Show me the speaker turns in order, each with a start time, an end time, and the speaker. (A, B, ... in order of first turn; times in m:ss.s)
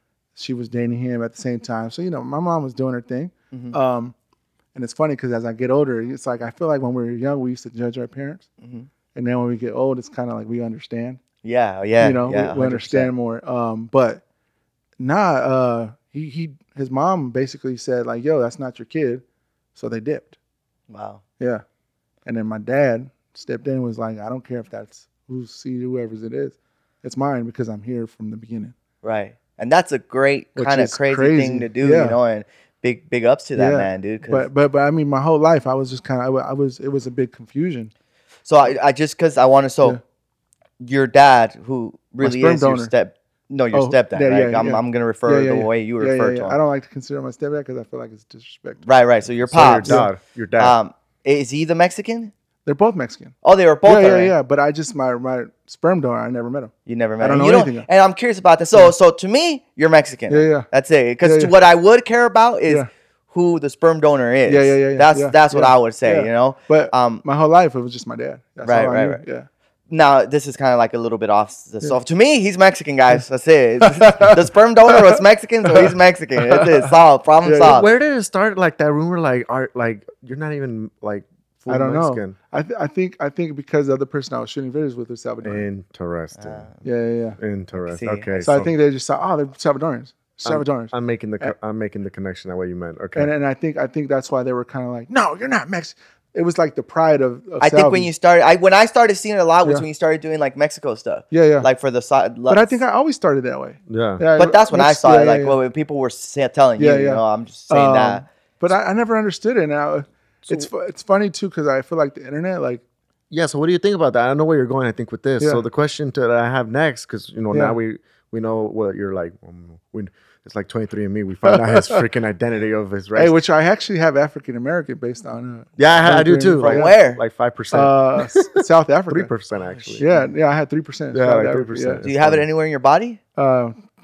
0:00.4-0:04.1 A
0:03.5-0:03.8 B
0:04.7-0:08.4 A
0:08.6-0:08.9 B
0:09.1-0:11.2 A
0:11.4-0:13.1 B
0:12.0-0:14.2 A
0:15.0-0:19.2 A
0:19.8-0:20.3 A
0:20.9-0:21.2 B
0:22.2-0:28.7 A
0:29.0-0:34.5 B
0:30.6-0:32.2 A
0:33.6-0:37.9 A
0:38.4-0:40.0 B
0:40.8-0:46.6 B
0:42.2-0:42.9 A
0:43.7-0:48.9 A
0:48.8-0:52.3 B
0:49.4-0:50.8 C
0:49.8-0:50.1 A
0:52.6-0:57.9 A
0:53.4-0:54.3 B
0:56.8-1:07.2 B
1:00.3-1:00.7 A
1:01.2-1:01.5 A
1:04.5-1:09.5 A
1:08.6-1:09.2 B
1:09.9-1:17.9 B
1:13.9-1:14.4 A
1:17.4-1:17.8 A
1:17.6-1:22.4 C
1:21.7-1:25.7 A
1:25.4-1:26.7 C
1:26.3-1:26.8 B
1:26.8-1:27.4 A
1:27.4-1:28.7 C
1:27.8-1:28.5 B
1:28.4-1:31.5 A
1:30.4-1:33.3 C
1:33.2-1:38.1 A
1:37.6-1:42.8 B
1:41.3-1:41.7 A
1:42.5-1:45.6 A
1:43.9-1:44.2 C
1:44.3-1:48.2 B
1:46.8-1:52.8 A
1:53.3-2:03.4 C
1:57.5-1:57.8 A
2:03.1-2:07.0 A
2:05.8-2:08.6 C
2:06.6-2:07.2 B
2:07.7-2:09.3 A
2:09.1-2:10.0 C
2:09.7-2:10.3 B
2:10.0-2:12.0 A
2:11.1-2:12.4 C
2:12.0-2:13.2 B
2:13.4-2:13.8 A